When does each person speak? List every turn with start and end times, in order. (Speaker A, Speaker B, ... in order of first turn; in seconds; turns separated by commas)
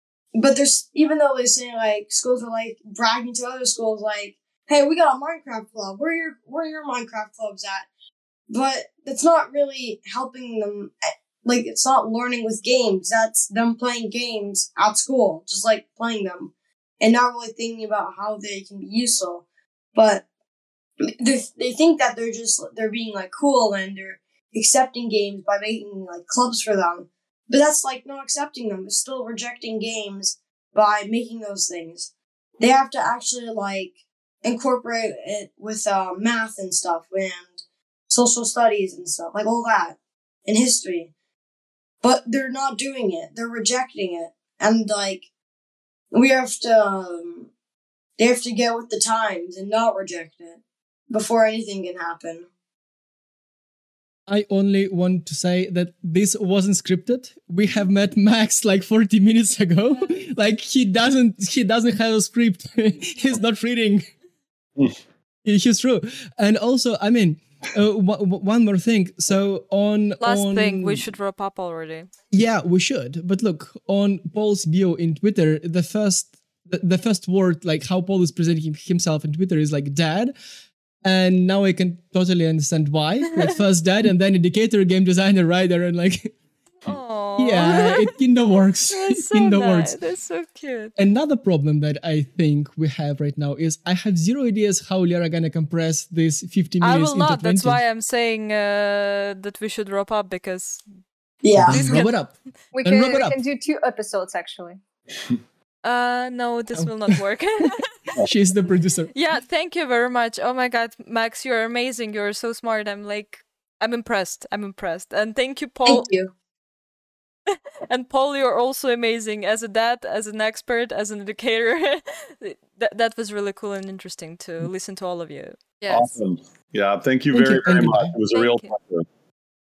Speaker A: 0.3-7.9, Speaker A: 8.5-20.2, Speaker A: 21.2-33.9, Speaker A: 34.4-41.1, Speaker A: 42.0-45.2, Speaker A: 46.1-47.5, Speaker A: 48.2-52.5, Speaker B: 54.3-64.0, Speaker B: 65.4-71.0, Speaker C: 70.2-72.1, Speaker B: 72.3-80.3, Speaker B: 81.0-86.3, Speaker C: 86.8-88.1, Speaker B: 87.4-89.9, Speaker C: 88.9-90.9, Speaker B: 91.0-97.8, Speaker C: 96.8-100.8, Speaker A: 101.4-102.0, Speaker B: 101.5-103.4, Speaker C: 101.7-102.1, Speaker D: 102.7-104.8, Speaker C: 105.8-108.1, Speaker B: 106.7-107.2, Speaker B: 108.2-109.1, Speaker C: 109.1-116.1, Speaker A: 115.8-116.3, Speaker C: 117.5-126.1, Speaker E: 125.9-129.1, Speaker B: 127.3-128.1, Speaker C: 128.3-128.7